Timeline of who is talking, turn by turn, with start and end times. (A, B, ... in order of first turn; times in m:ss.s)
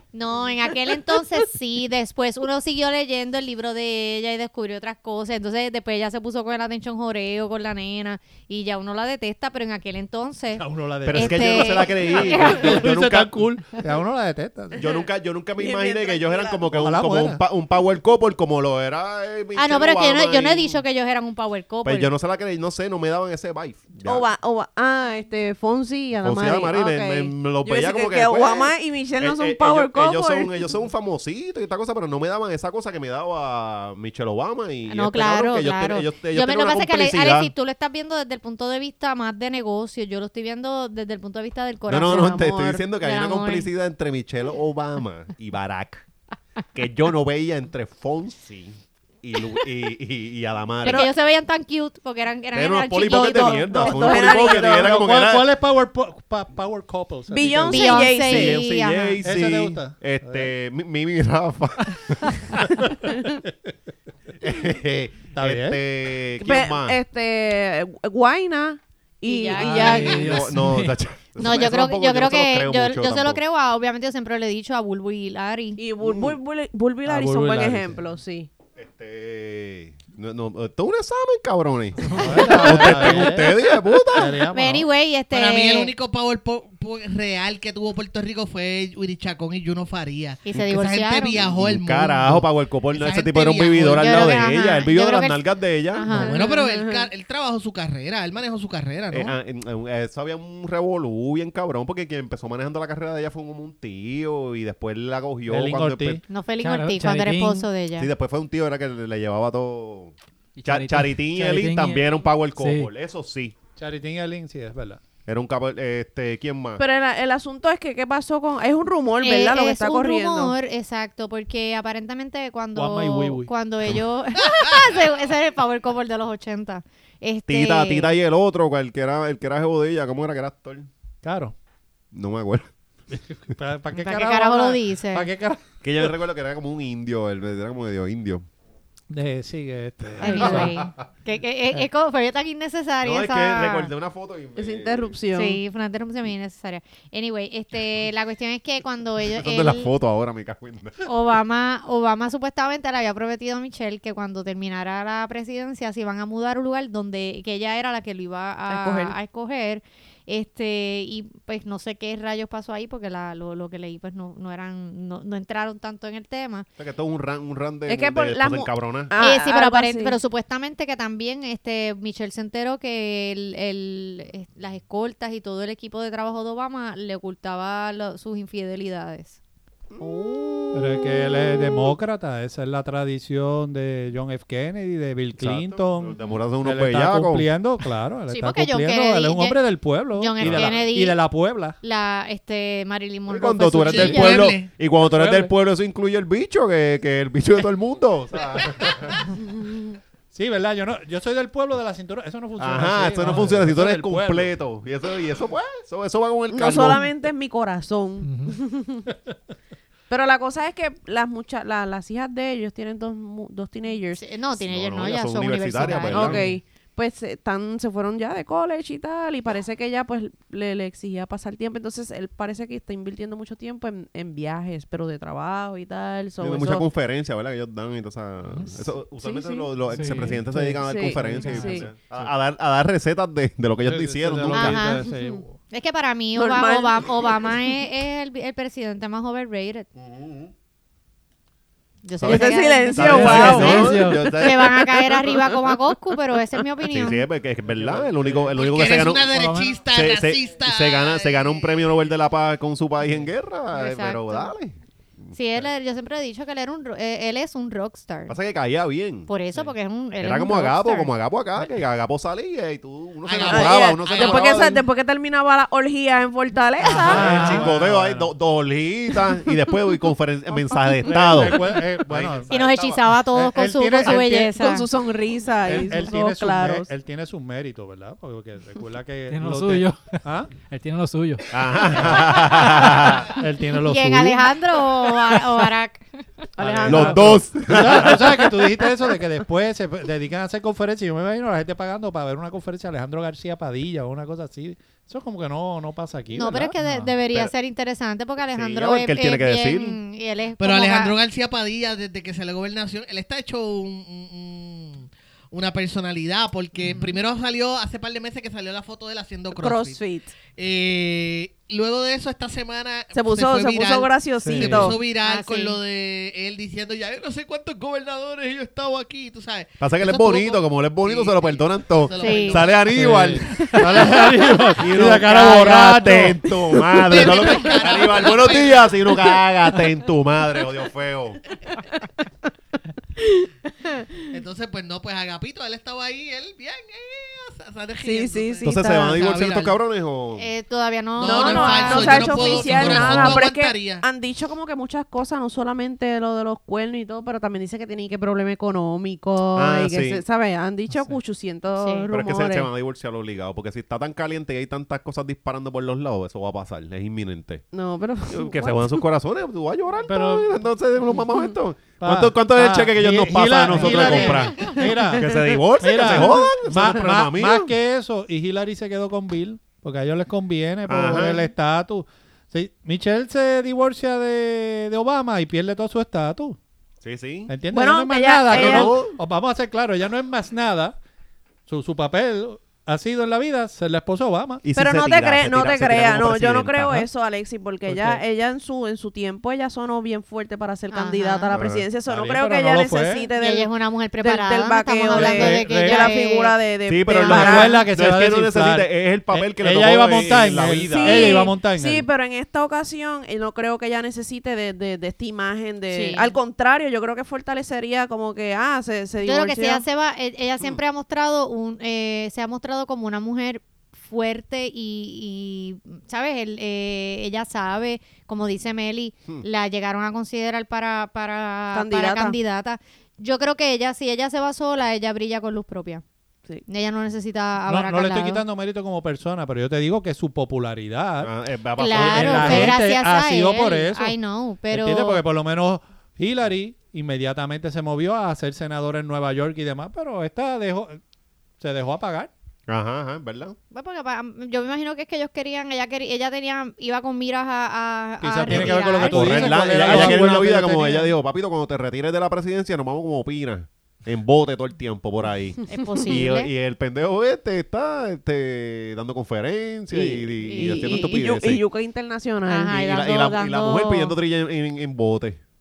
0:00.1-0:12.8 A
0:10.6-0:14.8 B
0:11.1-0:13.4 C
0:14.8-0:20.8 C
0:15.6-0:16.8 D
0:16.8-0:17.4 B
0:19.6-0:22.1 A
0:21.8-0:24.3 C
0:24.0-0:30.7 D
0:26.2-0:37.5 C
0:34.9-0:43.7 A
0:41.9-0:46.0 C
0:42.1-0:42.8 D
0:46.7-0:51.1 C
0:50.8-0:54.7 A
0:50.8-0:51.1 D
0:52.5-0:55.5 C
0:53.0-0:55.0 D
0:54.7-0:58.0 B
0:57.3-0:58.7 D
0:57.6-1:02.7 C
0:57.7-0:59.2 A
0:59.2-1:00.5 B
1:02.5-1:03.5 B
1:04.4-1:07.0 C
1:05.3-1:05.8 B
1:06.4-1:10.5 D
1:09.2-1:10.3 A
1:09.6-1:13.4 C
1:09.6-1:11.0 E
1:11.4-1:15.8 A
1:15.8-1:18.5 D
1:16.0-1:16.4 C
1:17.1-1:18.0 B
1:18.8-1:24.4 C
1:22.1-1:23.6 B
1:24.1-1:24.9 B
1:24.5-1:25.9 A
1:25.3-1:34.2 F
1:30.4-1:31.4 A
1:31.3-1:36.3 C
1:33.9-1:36.6 A
1:36.2-1:39.3 F
1:36.3-1:37.1 D
1:39.1-1:46.2 C
1:45.5-1:46.2 B
1:46.3-1:48.1 A
1:46.6-1:47.7 E
1:48.0-1:53.6 C
1:50.6-1:52.9 E
1:53.8-1:55.0 B
1:55.3-1:56.8 C
1:56.8-2:00.6 D
1:59.2-2:08.1 A
2:02.8-2:03.5 B
2:07.5-2:10.9 C
2:11.2-2:11.6 B
2:12.1-2:12.7 C
2:13.1-2:16.1 B
2:13.9-2:15.3 A
2:15.8-2:18.4 C
2:19.1-2:20.8 B
2:20.2-2:23.9 A
2:20.2-2:20.9 C
2:23.0-2:25.2 C
2:24.6-2:25.6 D
2:25.3-2:29.9 A
2:29.3-2:31.0 C
2:31.0-2:46.7 A
2:38.7-2:39.2 D
2:46.8-2:49.2 C
2:47.9-2:50.2 D
2:49.2-2:59.4 A
2:59.9-3:01.5 C
3:00.7-3:11.8 B
3:05.4-3:07.5 C
3:08.3-3:11.2 A
3:10.4-3:10.8 C
3:11.8-3:14.6 A
3:13.3-3:19.4 C
3:13.8-3:14.7 F
3:15.0-3:15.5 B
3:20.3-3:24.6 B
3:22.6-3:27.1 C
3:23.2-3:23.5 E
3:26.5-3:29.1 D
3:28.2-3:28.6 E
3:30.1-3:34.2 D
3:34.1-3:36.4 A
3:34.5-3:36.5 C
3:36.1-3:46.8 D
3:46.4-3:54.8 C
3:49.2-3:49.7 D
3:49.9-3:51.8 E
3:50.0-3:52.3 B
3:50.8-3:51.9 D
3:53.8-3:55.6 B
3:54.5-3:55.1 A
3:55.1-3:55.4 D
3:55.7-3:59.9 A
3:56.4-3:57.6 D
4:00.0-4:00.5 C
4:02.0-4:07.3 A
4:02.2-4:04.0 D
4:02.2-4:05.4 C
4:03.0-4:04.4 E
4:03.3-4:03.6 B
4:05.0-4:05.4 D
4:06.9-4:09.3 C
4:07.8-4:08.5 B
4:07.9-4:08.4 E
4:08.6-4:12.0 F
4:09.2-4:09.8 E
4:09.9-4:14.8 C
4:13.7-4:14.5 A
4:15.3-4:18.3 A
4:18.3-4:19.3 C
4:19.3-4:21.1 A
4:20.2-4:24.9 C
4:23.2-4:24.7 F
4:23.4-4:27.6 D
4:26.8-4:28.3 B
4:27.0-4:33.0 C
4:27.1-4:27.6 E
4:31.1-4:34.6 B
4:32.5-4:34.9 A
4:34.5-4:36.9 D
4:35.6-4:40.5 B
4:39.3-4:42.1 E
4:41.5-4:43.3 C
4:42.0-4:44.6 B
4:43.8-4:46.0 A
4:46.6-4:47.3 D
4:46.6-4:56.8 B
4:46.8-4:48.6 C
4:56.3-5:01.2 A
4:56.8-4:57.1 E
4:58.5-5:00.0 C
5:00.6-5:22.8 F
5:09.6-5:10.4 D
5:13.1-5:15.0 D
5:14.4-5:14.9 E
5:15.2-5:15.8 A
5:19.8-5:24.2 C
5:22.2-5:22.6 A
5:22.9-5:26.4 B
5:23.6-5:24.0 F
5:24.8-5:31.4 C
5:27.1-5:28.9 F
5:27.1-5:28.2 D
5:33.2-5:33.5 D
5:34.3-5:39.8 F
5:38.0-5:39.2 D
5:38.6-5:40.5 C
5:40.4-5:43.2 A
5:41.2-5:44.0 F
5:41.2-5:52.7 D
5:43.0-5:43.2 E
5:49.6-5:50.2 C
5:50.9-5:51.2 E
5:51.8-5:52.1 A
5:52.1-5:57.6 C
5:57.7-5:59.0 D
5:58.3-6:07.7 C
6:00.1-6:00.5 B
6:02.0-6:16.6 B
6:06.0-6:06.4 D
6:10.9-6:11.5 C
6:17.0-6:17.6 C
6:17.5-6:21.0 B
6:17.7-6:19.0 D
6:18.5-6:19.2 C
6:21.7-6:24.6 B
6:24.6-6:27.1 C
6:24.8-6:37.9 D
6:27.9-6:28.2 B
6:30.9-6:31.5 A
6:31.5-6:31.9 C
6:32.1-6:33.3 B
6:33.4-6:37.3 A
6:35.1-6:36.1 B
6:36.9-6:41.3 C
6:37.2-6:42.1 B
6:40.9-6:49.8 D
6:41.2-6:41.5 A
6:45.9-6:46.4 A
6:49.2-7:06.0 A
7:01.7-7:02.4 D
7:06.7-7:08.4 A
7:07.7-7:11.3 B
7:11.2-7:12.8 C
7:11.8-7:15.2 A
7:11.9-7:14.2 B
7:14.7-7:21.0 B
7:21.6-7:22.3 B
7:22.7-7:23.6 C
7:23.7-7:30.4 A
7:28.2-7:31.1 B
7:28.5-7:41.7 C
7:35.7-7:36.5 A
7:39.9-7:42.8 D
7:40.4-7:41.2 A
7:42.5-7:44.2 A
7:42.7-7:45.4 C